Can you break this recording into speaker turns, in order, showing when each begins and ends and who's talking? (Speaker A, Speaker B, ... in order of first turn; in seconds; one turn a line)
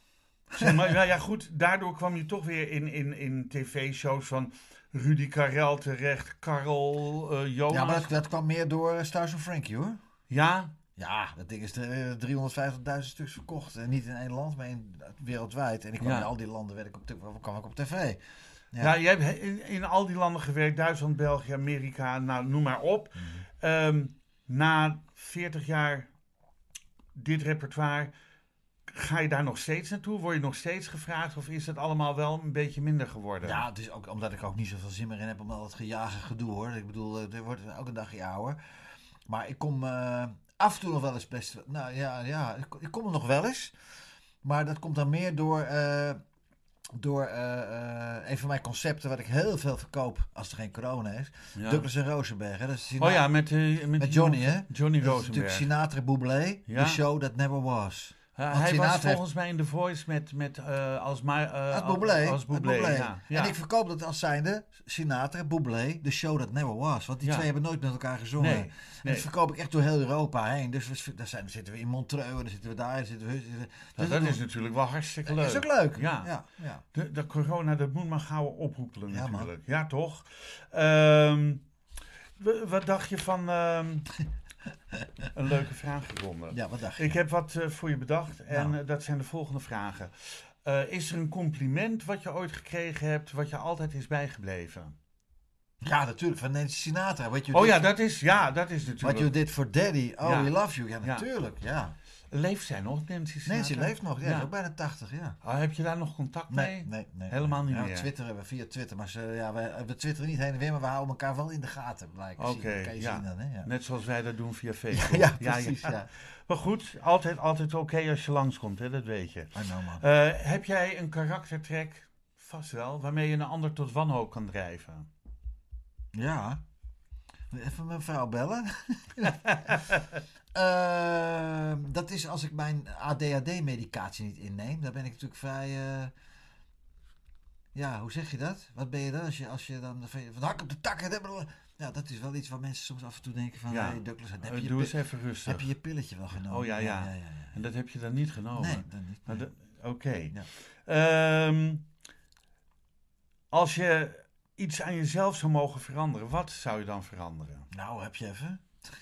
Speaker A: 0.5-8.1
Speaker B: 0.5-1.0
Speaker B: 7.7-10.0
Speaker A: 10.3-10.7
Speaker B: 10.9-18.2
Speaker A: 16.0-16.3
Speaker A: 18.8-26.1
Speaker A: 27.1-28.1
Speaker A: 28.9-33.6
Speaker B: 33.4-38.6
Speaker B: 39.3-43.7
Speaker B: 44.4-46.2
Speaker B: 46.9-53.3
Speaker A: 51.5-51.9
Speaker A: 53.0-55.7
Speaker B: 54.0-59.2
Speaker A: 56.7-57.0
Speaker A: 58.4-63.5
Speaker B: 61.7-74.4
Speaker A: 68.4-69.3
Speaker A: 74.0-76.3
Speaker B: 75.2-76.8
Speaker A: 76.9-81.6
Speaker B: 79.1-79.5
Speaker A: 82.4-84.1
Speaker A: 85.3-94.9
Speaker B: 86.5-87.2
Speaker B: 88.5-88.7
Speaker B: 95.8-97.9
Speaker A: 97.5-99.3
Speaker B: 99.0-102.0
Speaker A: 100.2-100.5
Speaker A: 102.3-104.5
Speaker B: 103.5-105.4
Speaker A: 105.4-108.1
Speaker B: 106.5-113.7
Speaker A: 112.4-125.1
Speaker B: 114.9-116.1
Speaker B: 119.5-120.0
Speaker B: 126.1-126.6
Speaker B: 127.5-129.8
Speaker A: 129.4-130.0
Speaker B: 130.5-136.1
Speaker B: 137.7-147.6
Speaker A: 143.7-145.7
Speaker A: 146.4-151.9
Speaker B: 148.5-149.4
Speaker A: 153.5-157.7
Speaker B: 157.7-158.6